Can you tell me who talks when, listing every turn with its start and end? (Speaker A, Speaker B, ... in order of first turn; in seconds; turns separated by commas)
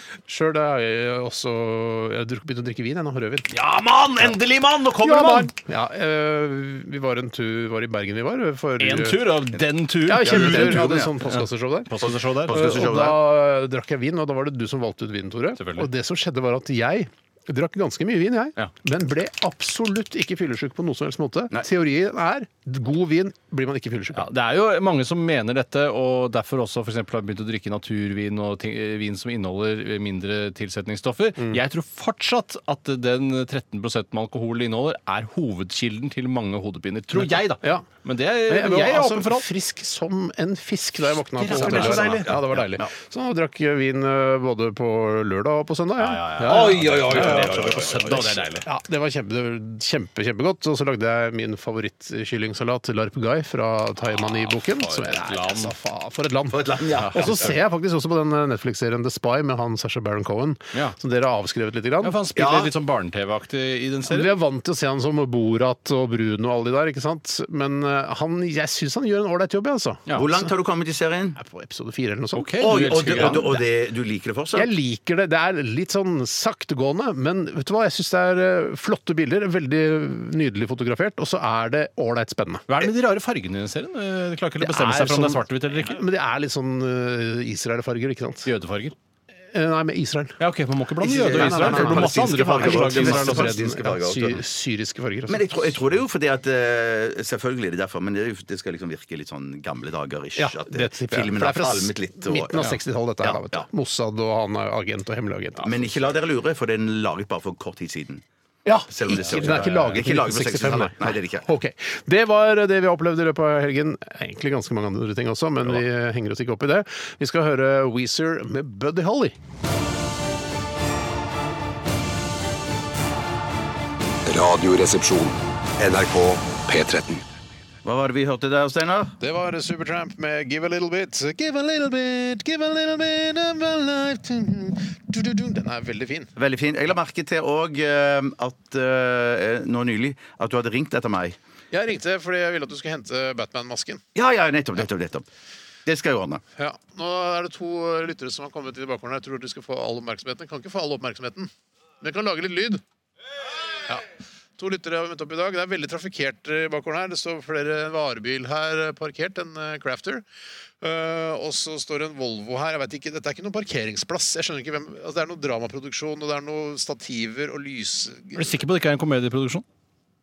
Speaker A: 0.3-3.5, Speaker B: 3.5-5.5, Speaker A: 5.0-9.4, Speaker B: 8.8-12.8, Speaker A: 10.0-11.9, Speaker C: 10.2-11.1, Speaker C: 12.0-13.2, Speaker A: 12.5-24.3, Speaker B: 15.6-15.9, Speaker B: 24.1-39.5, Speaker A: 37.5-37.8, Speaker A: 38.5-47.5, Speaker B: 41.4-42.4, Speaker C: 41.5-42.9, Speaker B: 46.0-48.6, Speaker C: 46.4-48.5, Speaker A: 48.6-62.1, Speaker B: 54.3-55.7, Speaker C: 56.5-57.6, Speaker B: 57.0-57.3, Speaker B: 62.0-64.3, Speaker C: 62.4-62.7, Speaker A: 64.0-70.5, Speaker C: 70.1-71.4, Speaker A: 71.3-73.6, Speaker B: 72.3-73.6, Speaker C: 72.6-74.7, Speaker A: 74.5-82.7, Speaker B: 82.7-86.0, Speaker A: 84.6-88.5, Speaker B: 88.5-88.9, Speaker A: 89.5-90.4, Speaker B: 90.4-93.6, Speaker A: 91.0-95.4, Speaker C: 91.0-94.4, Speaker C: 95.3-102.7, Speaker A: 100.3-105.9, Speaker C: 103.2-103.6, Speaker C: 105.6-108.2, Speaker A: 108.6-119.4, Speaker C: 108.9-111.5, Speaker D: 124.2-127.3, Speaker C: 127.8-129.1, Speaker A: 129.2-136.3, Speaker C: 136.4-141.4, Speaker A: 141.7-144.0, Speaker C: 144.1-145.2, Speaker C: 145.8-146.4, Speaker A: 146.6-152.8, Speaker A: 154.6-160.2, Speaker A: 160.8-168.4, Speaker B: 168.3-169.6